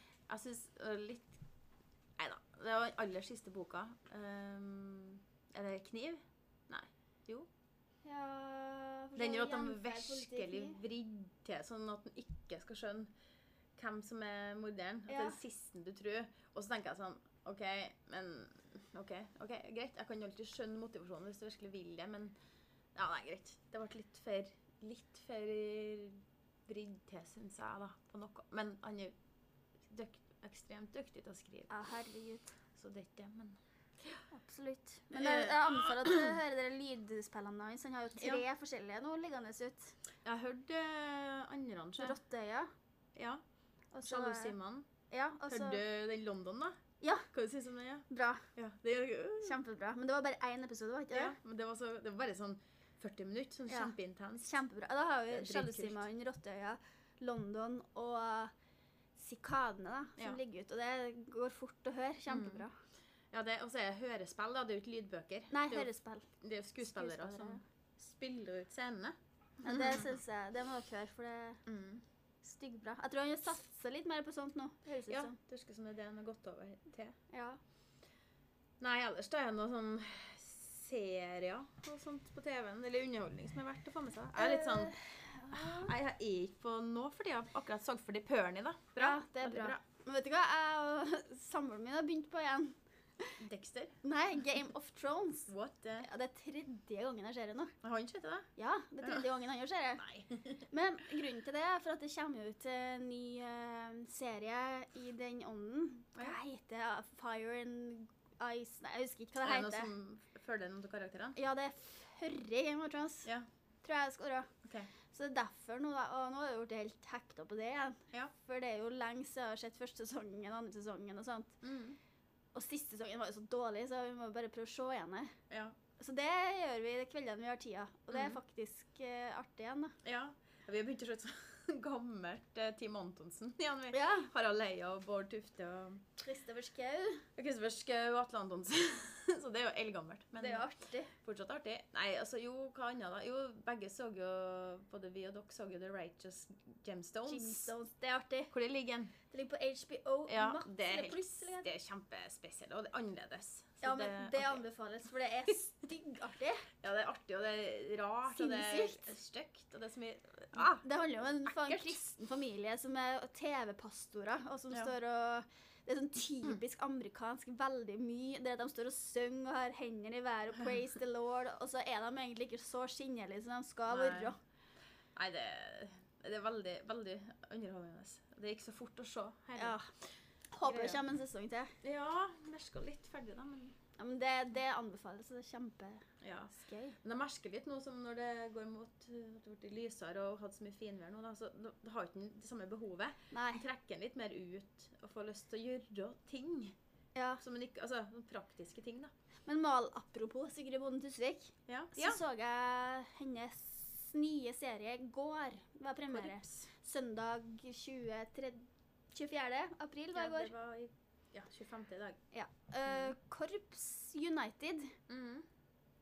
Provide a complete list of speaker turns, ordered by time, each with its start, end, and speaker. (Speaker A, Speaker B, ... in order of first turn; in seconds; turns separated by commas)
Speaker A: 0.3-1.4, Speaker A: 2.2-7.5, Speaker B: 8.0-10.8, Speaker A: 9.2-13.1, Speaker A: 13.8-22.3, Speaker B: 15.1-15.4, Speaker A: 22.9-29.1, Speaker A: 29.9-31.7, Speaker B: 31.7-32.6, Speaker A: 32.7-34.2, Speaker B: 34.3-40.0, Speaker A: 35.1-36.4, Speaker A: 38.2-38.4, Speaker A: 40.2-42.2, Speaker B: 42.0-42.7, Speaker A: 43.1-43.4, Speaker B: 43.9-44.5, Speaker A: 44.0-44.9, Speaker B: 45.1-45.8, Speaker A: 45.5-46.8, Speaker B: 47.0-47.3, Speaker A: 47.3-49.6, Speaker B: 48.1-48.5, Speaker B: 49.4-51.4, Speaker A: 51.1-54.6, Speaker B: 53.7-58.5, Speaker A: 55.3-56.1, Speaker B: 59.1-62.8, Speaker A: 62.3-62.6, Speaker A: 63.3-65.9, Speaker B: 65.5-67.6, Speaker A: 66.4-70.2, Speaker B: 69.6-71.6, Speaker A: 71.7-72.0, Speaker B: 72.4-75.4, Speaker A: 75.1-77.2, Speaker B: 77.3-77.6, Speaker A: 78.8-84.9, Speaker B: 84.4-85.9, Speaker A: 85.5-89.8, Speaker B: 89.0-93.4, Speaker A: 93.4-94.0, Speaker B: 94.0-97.7, Speaker A: 95.5-96.1, Speaker A: 97.8-98.5, Speaker B: 98.6-100.1, Speaker A: 99.0-99.3, Speaker A: 100.0-100.7, Speaker B: 100.7-109.9, Speaker A: 109.4-111.4, Speaker B: 111.4-113.3, Speaker B: 113.8-114.5, Speaker A: 114.6-114.9, Speaker B: 115.1-121.6, Speaker A: 121.6-122.0, Speaker B: 122.5-125.4, Speaker A: 125.5-125.8, Speaker B: 126.0-129.9, Speaker A: 128.1-128.4, Speaker A: 130.0-136.1, Speaker B: 133.9-134.3, Speaker B: 136.2-137.3, Speaker A: 137.4-147.7, Speaker B: 140.4-141.1, Speaker B: 147.3-148.5, Speaker A: 148.5-149.1, Speaker B: 149.3-151.7, Speaker A: 150.3-154.6, Speaker B: 153.8-156.7, Speaker A: 156.8-160.9, Speaker B: 158.3-159.1, Speaker B: 160.6-174.4, Speaker A: 161.4-162.0, Speaker A: 173.9-174.3, Speaker A: 175.1-179.8, Speaker B: 179.6-179.9, Speaker B: 180.5-181.7, Speaker A: 180.6-181.0, Speaker A: 181.8-183.8, Speaker B: 184.0-187.0, Speaker A: 186.2-196.7, Speaker B: 193.3-193.6, Speaker B: 197.1-197.4, Speaker A: 197.4-199.1, Speaker B: 199.4-210.5, Speaker A: 201.7-202.2, Speaker A: 206.1-206.7, Speaker A: 210.1-212.2, Speaker B: 212.3-214.9, Speaker A: 212.9-213.1, Speaker A: 215.1-215.4